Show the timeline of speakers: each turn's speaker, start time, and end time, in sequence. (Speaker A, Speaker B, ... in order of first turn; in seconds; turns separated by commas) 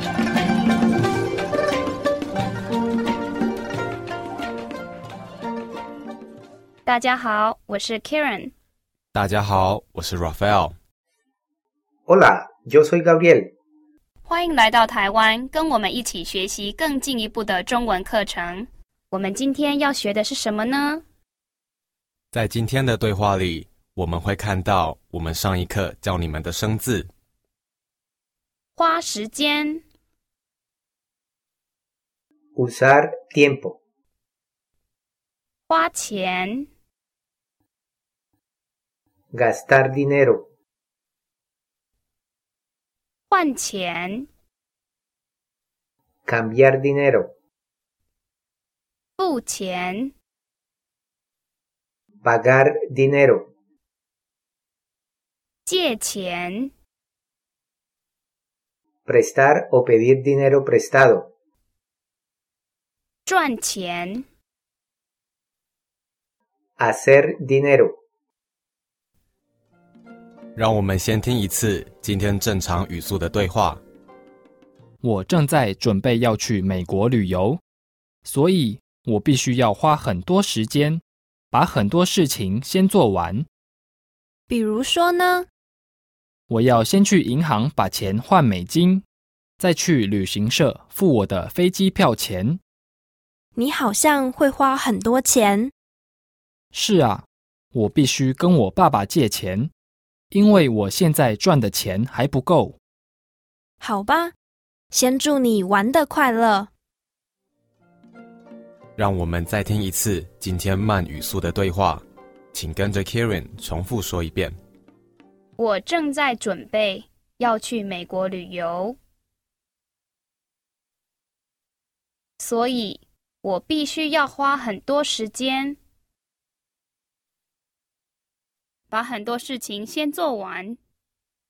Speaker A: 6.8-8.5, Speaker B: 9.1-10.7, Speaker C: 12.1-13.5, Speaker A: 14.2-21.0, Speaker B: 22.3-27.1, Speaker A: 28.8-29.8, Speaker C: 32.5-33.8, Speaker A: 35.7-36.7, Speaker C: 39.3-40.5, Speaker A: 43.3-44.3, Speaker C: 46.2-47.3, Speaker A: 49.2-50.1, Speaker C: 52.2-53.5, Speaker A: 55.6-56.7, Speaker C: 59.0-61.3, Speaker A: 63.2-64.2, Speaker C: 66.8-68.0, Speaker B: 70.5-73.8, Speaker D: 75.0-77.6, Speaker D: 78.2-83.5, Speaker E: 84.5-85.5, Speaker D: 86.5-89.0, Speaker D: 89.6-92.6, Speaker E: 93.5-95.7, Speaker D: 96.7-99.7, Speaker D: 100.3-102.8, Speaker E: 103.8-104.3, Speaker E: 104.9-106.7, Speaker B: 109.0-114.5, Speaker A: 115.6-119.0, Speaker A: 122.4-125.8, Speaker A: 128.9-130.8